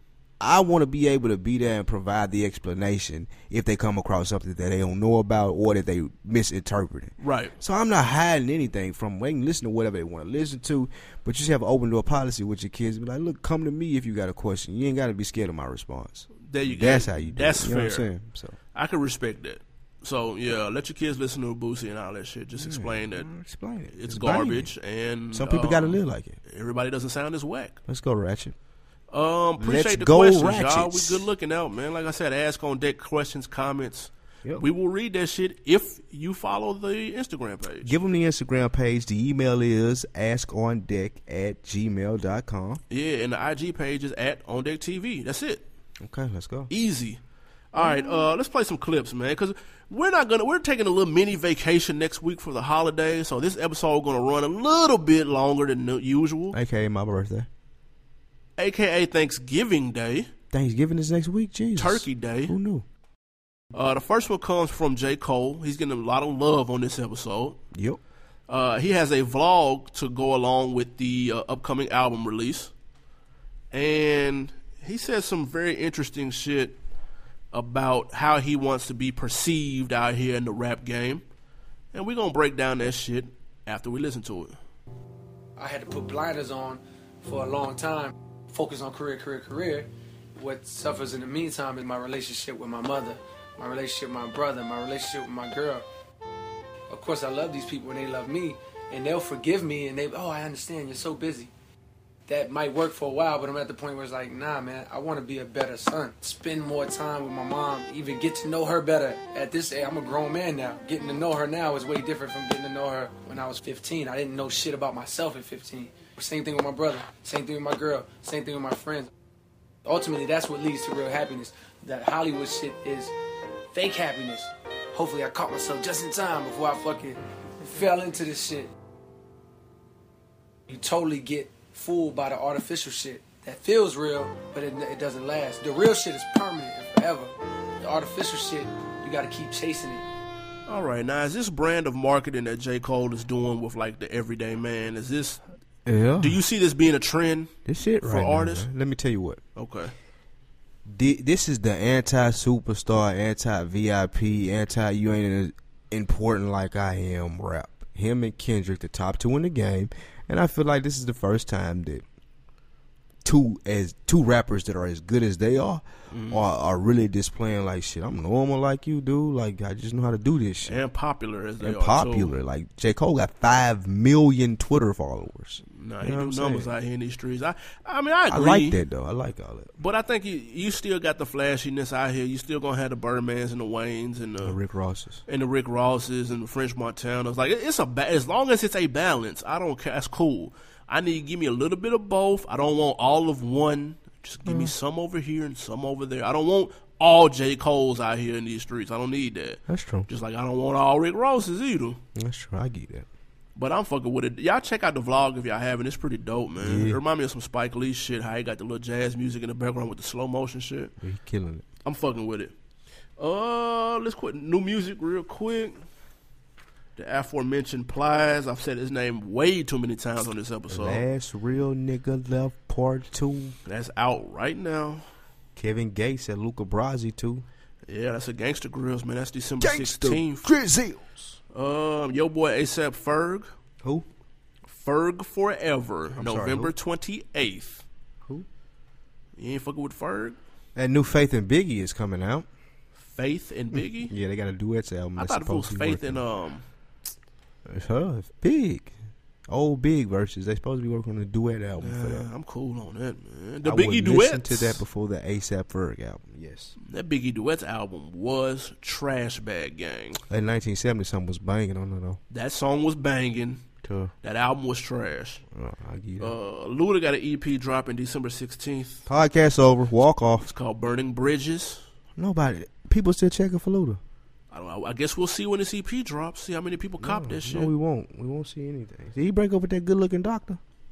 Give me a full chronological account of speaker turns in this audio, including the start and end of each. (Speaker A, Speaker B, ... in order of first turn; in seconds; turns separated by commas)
Speaker A: 0.4-18.6, Speaker B: 7.2-7.5, Speaker B: 16.4-18.1, Speaker B: 18.7-23.3, Speaker A: 22.6-24.7, Speaker B: 23.9-27.8, Speaker A: 25.3-26.4, Speaker A: 27.9-28.5, Speaker B: 29.1-37.9, Speaker A: 29.6-31.3, Speaker A: 37.8-42.8, Speaker B: 42.9-45.6, Speaker A: 46.0-46.7, Speaker B: 46.7-47.2, Speaker B: 47.7-56.6, Speaker A: 47.8-48.3, Speaker A: 56.5-57.5, Speaker B: 58.6-60.3, Speaker A: 60.5-62.8, Speaker B: 61.8-62.5, Speaker B: 63.7-67.6, Speaker A: 67.7-68.0, Speaker B: 68.5-72.7, Speaker B: 73.7-76.8, Speaker B: 77.5-81.2, Speaker B: 81.9-84.5, Speaker C: 85.6-95.8, Speaker C: 96.9-101.5, Speaker C: 102.3-119.1, Speaker C: 119.8-123.1, Speaker C: 123.7-128.7, Speaker C: 130.7-140.0, Speaker B: 140.7-145.4, Speaker A: 145.8-146.4, Speaker B: 146.2-148.7, Speaker A: 147.7-149.4, Speaker B: 149.5-149.9, Speaker A: 150.9-162.0, Speaker A: 163.2-170.8, Speaker B: 166.1-166.4, Speaker B: 170.7-172.3, Speaker A: 171.6-176.7, Speaker B: 175.7-178.8, Speaker A: 178.3-179.7, Speaker B: 179.8-184.6, Speaker A: 184.4-185.2, Speaker B: 185.3-202.0, Speaker A: 194.4-194.7, Speaker A: 199.7-200.1, Speaker A: 202.1-203.1, Speaker B: 203.6-210.9, Speaker A: 206.6-207.0, Speaker A: 211.0-211.6, Speaker B: 211.8-212.5, Speaker B: 213.2-215.8, Speaker B: 216.9-221.0, Speaker A: 220.7-223.5, Speaker B: 223.6-225.0, Speaker A: 225.6-227.4, Speaker B: 227.9-230.5, Speaker A: 229.6-231.4, Speaker B: 231.5-233.5, Speaker B: 234.7-237.8, Speaker A: 236.2-236.7, Speaker B: 239.4-240.4, Speaker A: 240.7-242.5, Speaker B: 243.0-244.1, Speaker A: 243.7-246.2, Speaker B: 245.2-246.6, Speaker A: 247.7-248.9, Speaker A: 249.5-252.2, Speaker B: 251.8-254.8, Speaker A: 253.6-256.7, Speaker B: 256.8-260.2, Speaker A: 260.3-262.2, Speaker B: 262.3-263.6, Speaker A: 263.8-264.1, Speaker B: 264.2-265.4, Speaker A: 265.5-266.4, Speaker B: 266.2-269.1, Speaker A: 269.1-270.5, Speaker B: 270.4-271.9, Speaker A: 272.1-274.0, Speaker B: 274.5-277.7, Speaker A: 277.0-280.6